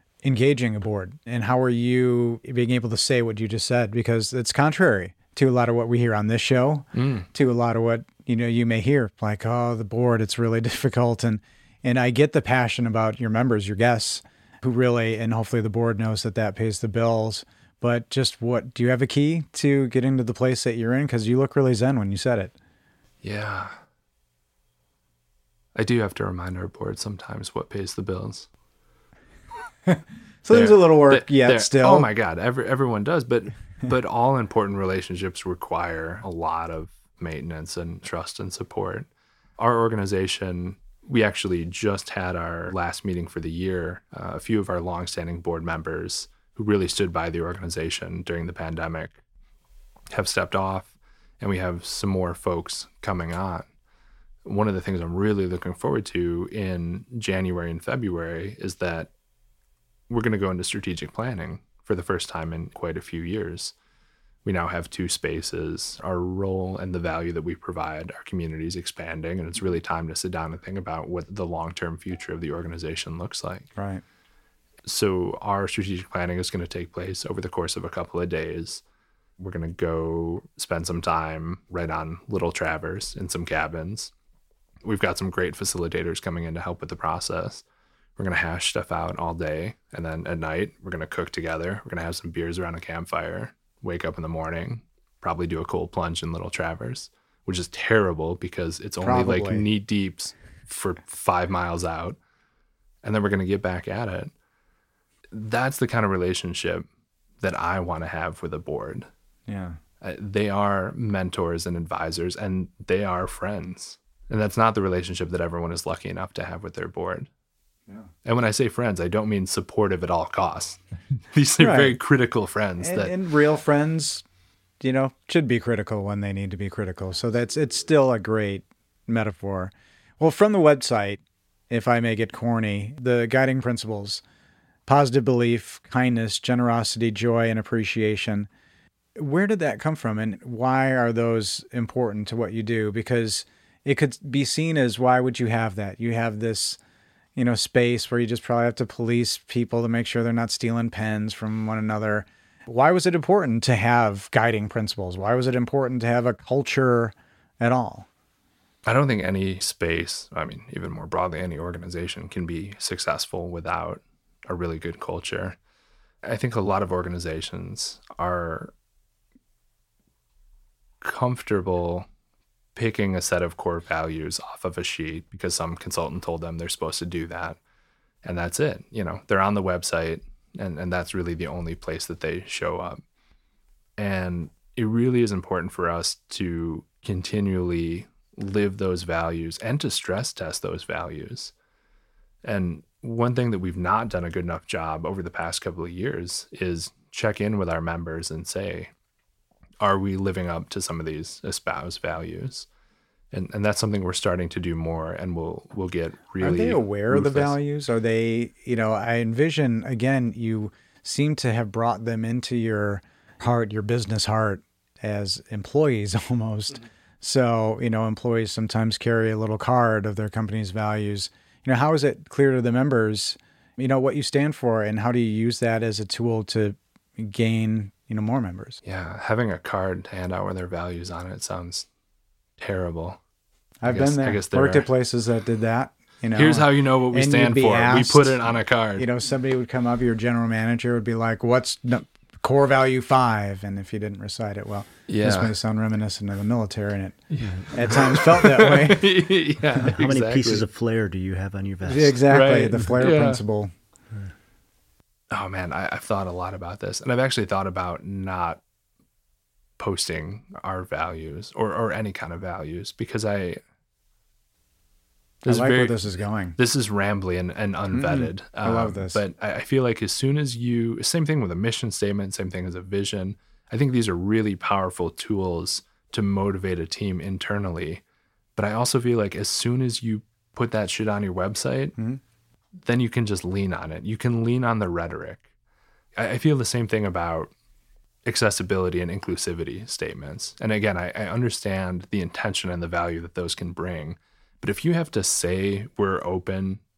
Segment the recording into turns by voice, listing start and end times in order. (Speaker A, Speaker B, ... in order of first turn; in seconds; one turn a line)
Speaker A: 0.2-22.5
Speaker B: 6.9-7.3
Speaker B: 23.2-23.7
Speaker B: 25.7-28.5
Speaker A: 29.9-32.1
Speaker B: 30.5-49.1
Speaker B: 50.1-53.7
Speaker B: 54.4-59.1
Speaker B: 60.1-63.7
Speaker B: 64.4-73.7
Speaker A: 73.8-74.0
Speaker B: 74.8-78.8
Speaker B: 79.4-84.1
Speaker B: 84.8-87.6
Speaker B: 88.2-102.2
Speaker A: 99.0-99.6
Speaker B: 103.0-104.3
Speaker B: 105.3-106.8
Speaker B: 107.4-109.1
Speaker A: 109.5-109.8
Speaker B: 110.0-117.3
Speaker B: 118.2-120.8
Speaker B: 121.3-123.1
Speaker A: 121.6-122.0
Speaker A: 122.8-124.2
Speaker A: 124.8-134.2
Speaker A: 134.8-138.5
Speaker A: 139.2-146.8
Speaker A: 147.3-158.1
Speaker B: 158.8-165.6
Speaker B: 166.2-168.7
Speaker B: 171.0-172.1
Speaker B: 172.7-177.6
Speaker B: 178.2-183.0
Speaker B: 184.0-191.5
Speaker B: 192.4-198.9
Speaker B: 199.8-202.7
Speaker B: 203.3-207.6
Speaker A: 206.4-228.8
Speaker B: 228.8-231.9
Speaker B: 232.6-233.2
Speaker A: 233.8-238.4
Speaker B: 233.9-234.9
Speaker B: 236.3-239.1
Speaker A: 238.9-249.0
Speaker B: 245.1-245.5
Speaker B: 247.3-250.7
Speaker C: 249.8-252.2
Speaker A: 251.8-253.7
Speaker B: 252.3-253.4
Speaker B: 255.3-258.6
Speaker B: 259.8-263.6
Speaker B: 265.4-266.0
Speaker A: 265.4-266.6
Speaker B: 266.6-278.0
Speaker A: 267.9-269.2
Speaker B: 278.6-282.0
Speaker B: 282.8-285.4
Speaker B: 286.1-287.5
Speaker B: 288.2-296.8